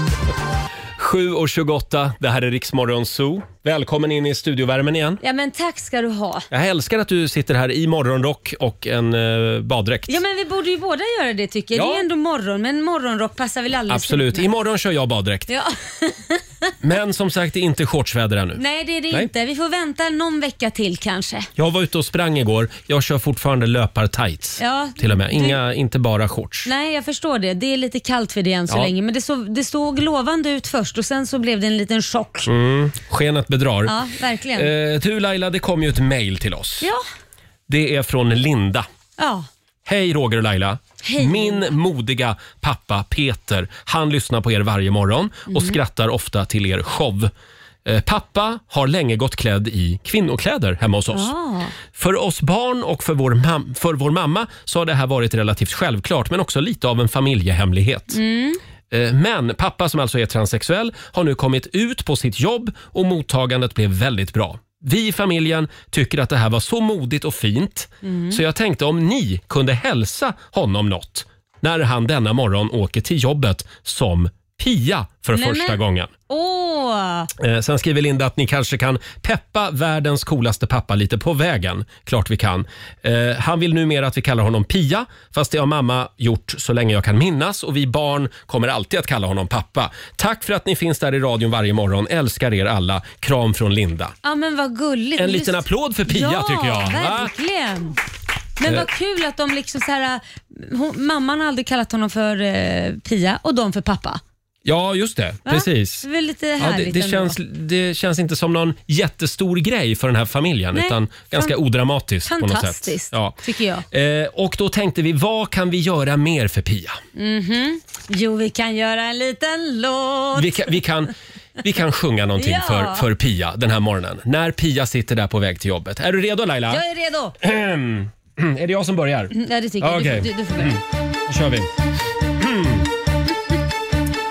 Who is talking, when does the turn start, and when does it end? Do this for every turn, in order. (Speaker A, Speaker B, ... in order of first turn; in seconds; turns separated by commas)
Speaker A: 1.0-5.2, Speaker B: 5.2-6.5, Speaker A: 6.5-10.2, Speaker B: 10.1-14.5, Speaker A: 11.7-12.0, Speaker A: 13.9-15.5, Speaker B: 15.5-16.4, Speaker A: 16.8-19.3, Speaker B: 18.6-21.5, Speaker A: 21.6-26.7, Speaker B: 24.6-25.6, Speaker B: 26.6-32.5, Speaker A: 32.5-33.9, Speaker B: 33.9-34.7, Speaker A: 34.5-36.9, Speaker A: 37.7-38.9, Speaker B: 39.2-39.5, Speaker A: 39.9-47.3, Speaker B: 41.0-41.7, Speaker B: 45.5-45.8, Speaker A: 47.8-51.3, Speaker B: 51.1-51.7, Speaker A: 51.9-58.2, Speaker B: 58.1-58.6, Speaker A: 58.9-76.1, Speaker B: 68.0-68.4, Speaker B: 75.3-77.3, Speaker A: 77.4-94.1, Speaker B: 94.2-98.0, Speaker A: 95.2-97.3, Speaker B: 98.6-104.2, Speaker A: 104.6-106.0, Speaker B: 105.5-107.4, Speaker A: 106.6-113.4, Speaker B: 110.7-111.5, Speaker B: 112.2-113.8, Speaker A: 113.9-117.0, Speaker B: 117.2-120.8, Speaker A: 120.3-126.8, Speaker B: 122.4-123.0, Speaker B: 126.7-127.3, Speaker A: 127.4-131.7, Speaker B: 129.3-130.8, Speaker A: 132.4-132.9